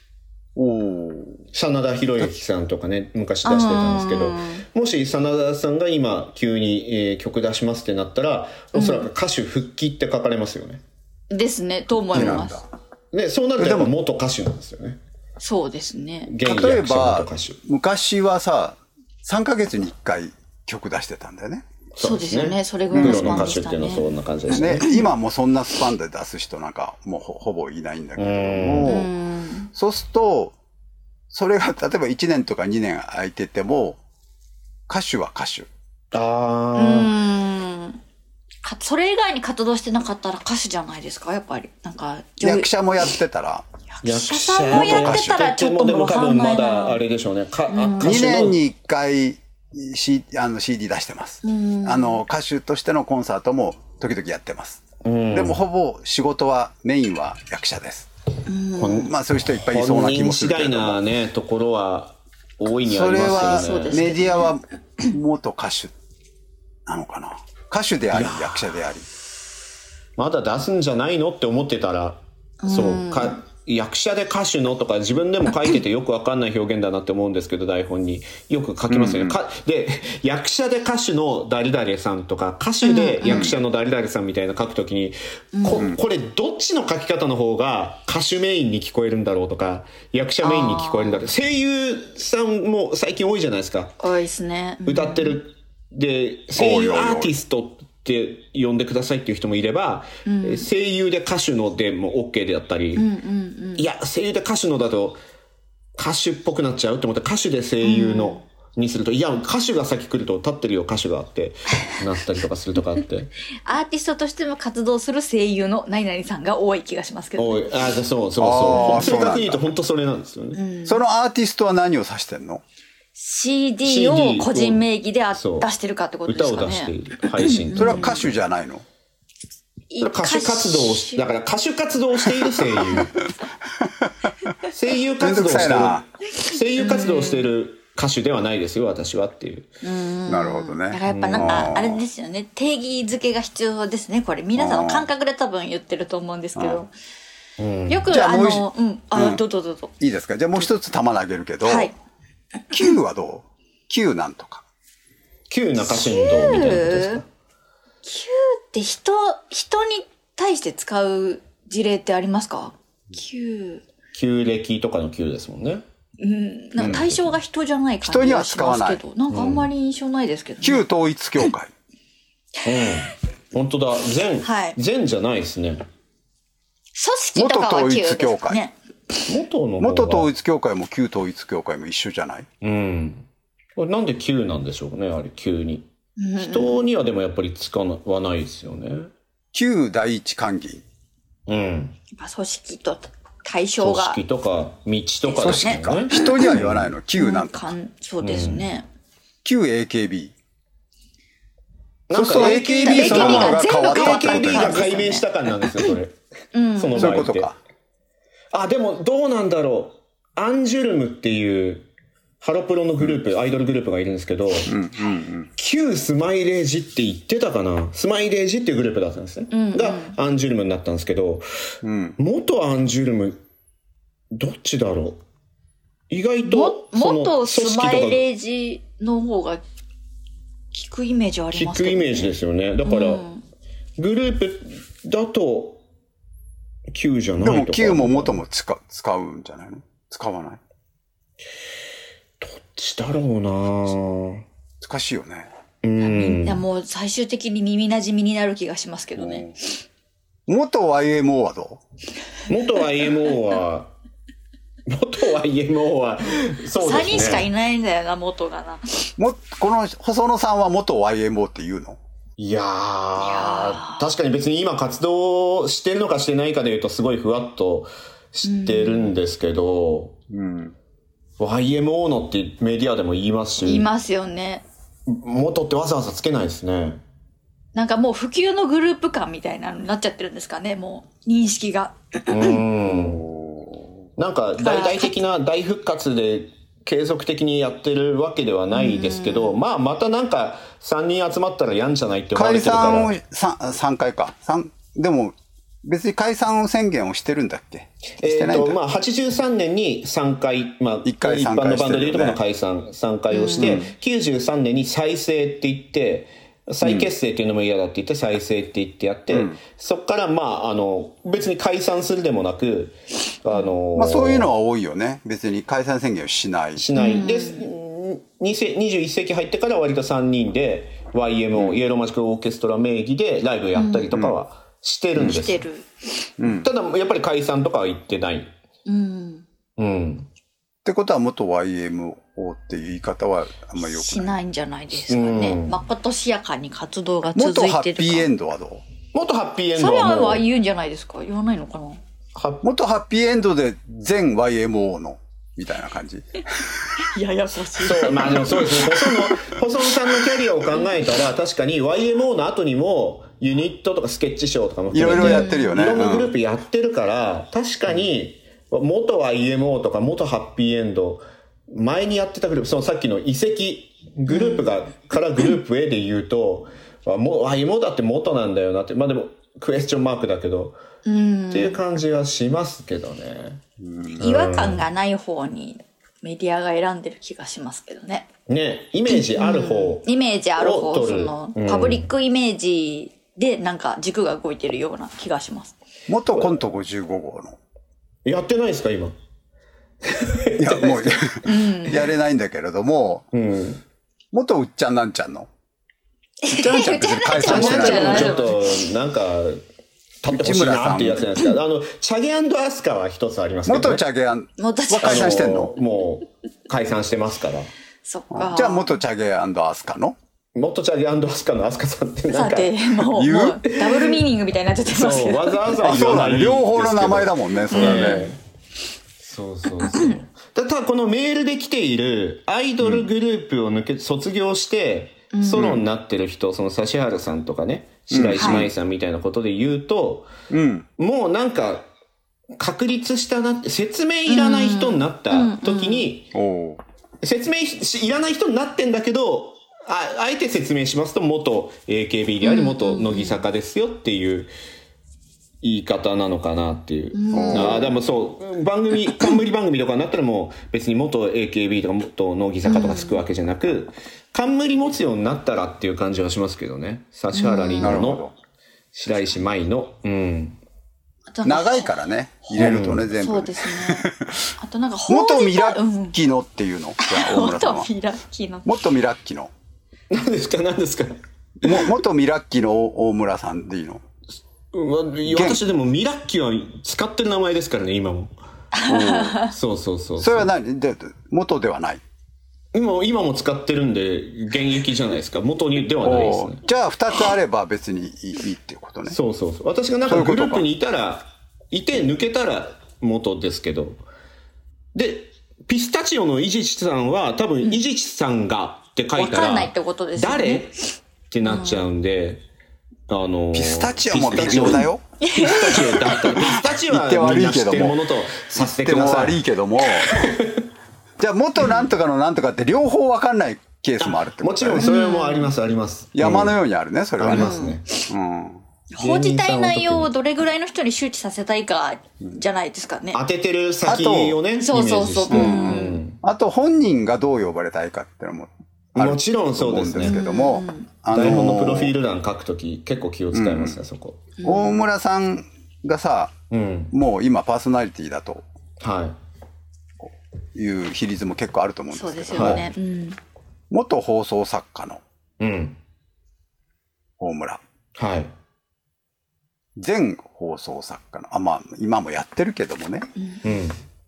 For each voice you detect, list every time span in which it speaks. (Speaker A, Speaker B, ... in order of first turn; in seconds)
Speaker A: 0.6-1.4, 12.1-12.6, 13.6-13.9, 16.4-21.6, 22.9-23.5, 24.5-29.1, 29.7-30.5, 31.3-34.0, 34.9-35.7, 42.4-43.6, 44.7-45.4, 48.0-58.1, 58.9-61.0, 62.8-65.9, 66.9-69.0, 78.9-79.4, 83.2-83.5, 96.5-97.3, 118.4-119.7, 120.8-122.6, 127.7-128.8, 135.2-136.1, 140.3-142.0, 144.6-145.1, 146.6-146.8, 148.1-149.4, 150.0-151.9, 152.7-154.6, 166.8-167.0, 168.0-169.0, 170.6-171.7, 177.3-178.6, 179.8-182.5, 189.5-190.8, 195.4-197.6, 199.4-200.3, 202.1-204.9, 206.9-207.6, 214.7-215.5, 221.8-222.2, 237.4-240.6, 244.8-245.5, 249.2-249.5, 250.5-251.8, 259.2-262.0, 270.3-270.7, 282.9-283.9, 292.3-298.8, 301.0-302.4, 303.6-303.9, 306.8-307.1, 309.3-309.6, 313.9-316.8, 321.5-321.8, 326.4-326.7, 330.8-334.4, 337.3-338.8, 342.6-346.9, 354.9-356.3, 373.8-374.2, 386.1-387.6, 390.6-393.2, 394.3-395.5, 396.5-398.4, 400.3-401.3, 403.6-405.7, 408.3-410.1, 413.1-413.6, 415.8-418.3, 422.8-423.1, 428.1-428.7, 430.5-430.9, 436.3-436.8, 447.3-447.9, 457.8-458.3, 461.4-464.5, 465.1-467.9, 468.6-469.5, 471.6-474.0, 475.3-475.6, 480.2-482.0, 486.0-489.1, 490.0-490.7, 503.5-505.0, 506.4-510.1, 511.2-514.9, 516.1-517.5, 518.1-518.6, 523.8-524.4, 525.3-532.0, 533.3-533.8, 534.4-536.3, 536.9-538.4, 540.0-542.7, 543.7-545.0, 547.2-547.6, 549.8-553.1
Speaker B: 1.5-10.8, 13.1-15.0, 16.3-17.6, 21.9-24.9, 28.2-28.9, 36.1-37.1, 44.0-48.6, 55.0-55.6, 58.8-64.1, 68.1-68.8, 70.2-93.9, 94.8-103.0, 103.8-105.2, 106.0-113.3, 117.4-120.6, 123.8-125.7, 126.3-128.3, 130.0-133.1, 134.7-139.7, 141.1-141.7, 147.6-148.1, 155.5-157.3, 164.1-165.8, 166.8-167.2, 169.3-169.7, 172.6-175.8, 179.3-180.3, 182.6-189.1, 191.5-192.0, 193.8-196.9, 198.2-198.7, 202.1-206.2, 206.7-207.5, 208.5-211.9, 212.4-214.7, 215.6-221.4, 222.2-223.4, 224.3-225.2, 226.1-228.2, 231.5-233.2, 234.0-235.8, 236.9-238.4, 242.4-244.4, 245.8-246.6, 252.5-253.9, 254.9-257.5, 262.4-270.1, 271.4-273.9, 275.1-277.0, 282.3-283.2, 284.2-293.1, 298.2-314.5, 316.8-325.6, 326.5-328.5, 329.8-330.3, 334.9-335.8, 339.1-340.4, 342.3-342.7, 347.8-370.8, 371.5-373.6, 374.2-374.8, 378.5-380.1, 380.6-382.1, 388.2-389.1, 390.0-391.4, 393.3-393.8, 397.4-399.6, 400.2-404.0, 405.0-407.7, 410.5-413.0, 413.6-414.2, 414.9-418.4, 419.2-430.3, 431.0-431.9, 432.6-436.3, 437.2-444.5, 445.6-458.3, 458.9-460.6, 462.5-463.1, 470.1-471.2, 474.7-478.3, 478.9-480.5, 482.7-486.6, 489.1-494.0, 494.9-500.7, 501.3-502.4, 503.1-509.4, 510.1-510.6, 514.0-516.6, 517.2-517.9, 519.0-520.1, 523.1-526.2, 528.9-530.2, 531.1-534.2, 536.5-536.9, 538.8-539.2, 542.3-542.6, 545.4-545.8, 548.0-548.3, 553.4-553.8
Speaker C: 3.4-4.6, 8.7-9.1, 11.3-12.6, 15.4-16.3, 22.0-25.1, 28.8-29.7, 36.8-38.0, 38.6-43.1, 43.9-47.0, 47.7-48.2, 51.4-52.2, 58.5-59.1, 63.2-64.5, 72.6-73.4, 82.8-83.5, 85.5-85.9, 90.4-91.2, 94.0-95.4, 100.2-100.7, 103.0-103.8, 107.8-108.4, 113.6-117.7, 118.7-119.2, 120.5-121.0, 123.2-128.2, 129.9-131.2, 136.8-137.5, 139.8-146.9, 147.9-149.9, 151.6-151.9, 155.8-157.2, 158.0-163.8, 166.2-170.8, 174.4-174.8, 176.9-178.7, 186.2-186.8, 192.2-194.2, 195.3-196.6, 197.1-198.8, 202.3-205.9, 206.5-207.2, 219.5-220.2, 226.4-229.6, 230.7-232.3, 232.8-233.4, 246.0-249.6, 256.8-259.1, 263.2-264.0, 268.4-269.2, 273.6-274.6, 277.7-282.6, 284.6-285.2, 288.7-289.6, 303.3-303.8, 316.9-317.6, 323.7-324.1, 325.2-325.9, 328.9-329.4, 333.8-338.3, 339.8-342.0, 347.0-349.3, 355.1-355.8, 364.3-364.7, 371.0-371.8, 374.2-378.3, 379.1-385.7, 391.4-392.1, 396.4-398.8, 404.6-405.5, 408.0-408.9, 412.3-415.6, 417.7-418.3, 419.9-420.1, 425.3-425.8, 428.4-428.7, 434.3-436.1, 442.4-443.4, 447.1-447.9, 452.6-453.2, 457.3-458.0, 461.3-461.9, 463.1-466.2, 467.0-468.8, 478.7-479.5, 499.1-500.7, 501.4-501.8, 505.2-506.3, 511.6-511.9, 514.8-515.5, 517.3-518.1, 518.9-523.2, 524.6-526.0, 530.0-530.9, 534.4-534.8, 541.9-543.2